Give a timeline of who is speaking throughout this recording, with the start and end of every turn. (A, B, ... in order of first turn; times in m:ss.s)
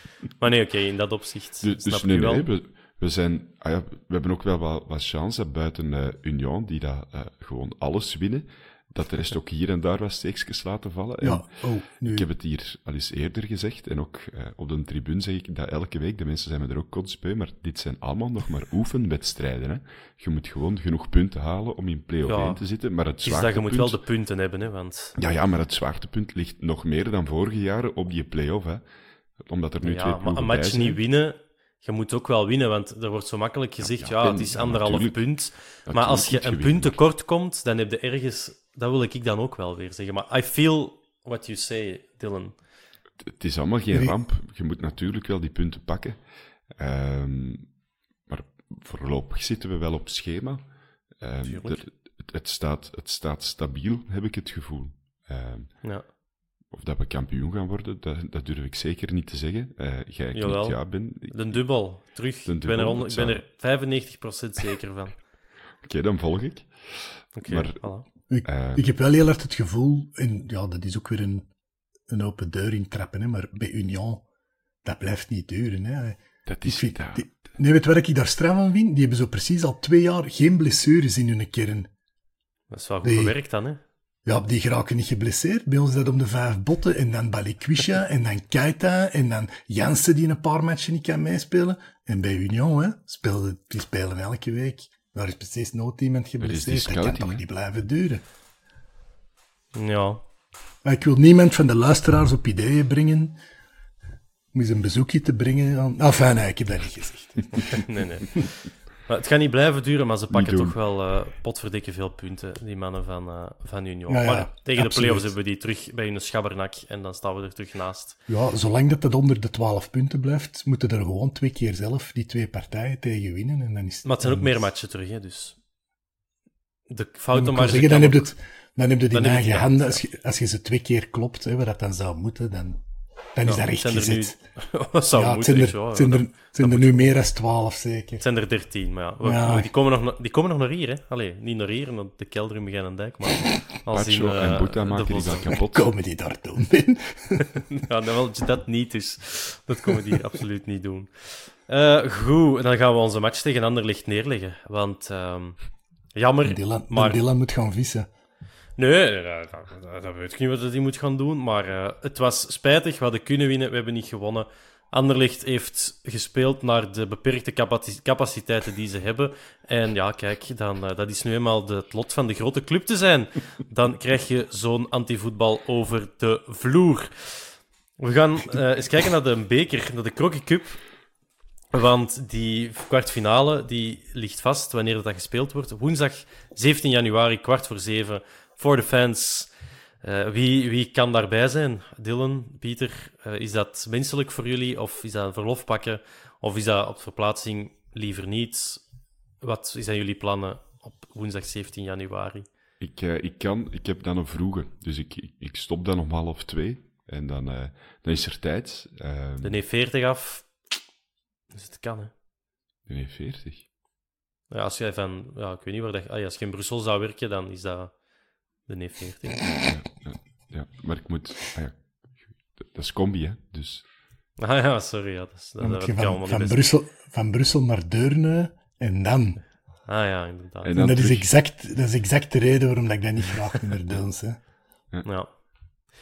0:00.4-0:02.5 A
0:01.6-0:11.5 B
0:11.2-0:12.3 C
0:12.0-0:24.0 B
0:22.2-0:22.6 A
0:23.2-0:25.1 A
0:25.2-0:28.8 B
0:29.4-0:31.0 B
0:29.8-0:42.6 A
0:33.8-0:37.0 B
0:43.2-0:46.2 B
0:46.7-0:47.7 B
0:48.3-0:55.9 B
0:51.4-0:51.8 A
0:56.7-1:01.6 B
1:00.3-1:05.2 A
1:02.4-1:03.4 B
1:05.8-1:07.8 B
1:07.4-1:08.0 A
1:08.3-1:11.5 C
1:08.4-1:08.8 B
1:12.1-1:14.2 C
1:14.8-1:21.9 C
1:16.4-1:17.5 B
1:22.7-1:23.8 A
1:23.0-1:23.3 C
1:24.3-1:38.2 C
1:36.4-1:37.4 B
1:39.7-1:40.2 A
1:40.8-1:43.4 C
1:44.5-1:47.8 C
1:47.7-1:48.5 A
1:49.1-1:58.2 A
1:50.3-1:50.8 B
1:54.1-1:55.3 C
1:58.3-2:04.6 C
2:04.0-2:05.6 A
2:06.9-2:08.3 A
2:07.3-2:12.8 C
2:09.1-2:10.0 A
2:13.3-2:14.4 C
2:13.4-2:17.1 A
2:15.1-2:18.2 C
2:18.2-2:25.5 A
2:19.2-2:19.7 C
2:23.9-2:25.9 B
2:25.5-2:27.5 C
2:27.7-2:35.6 A
2:36.1-2:37.2 A
2:36.4-2:38.1 C
2:38.8-3:00.8 A
3:01.7-3:09.5 A
3:10.0-3:18.8 A
3:19.4-3:22.5 A
3:22.8-3:29.6 B
3:29.4-3:30.5 A
3:31.5-3:32.1 A
3:32.9-3:33.6 B
3:34.5-3:38.0 A
3:38.6-3:39.4 A
3:39.5-3:43.8 B
3:44.4-3:46.6 A
3:45.6-3:49.4 C
3:49.9-3:50.7 A
3:50.6-3:51.3 B
3:50.8-3:54.4 C
3:55.0-3:55.3 A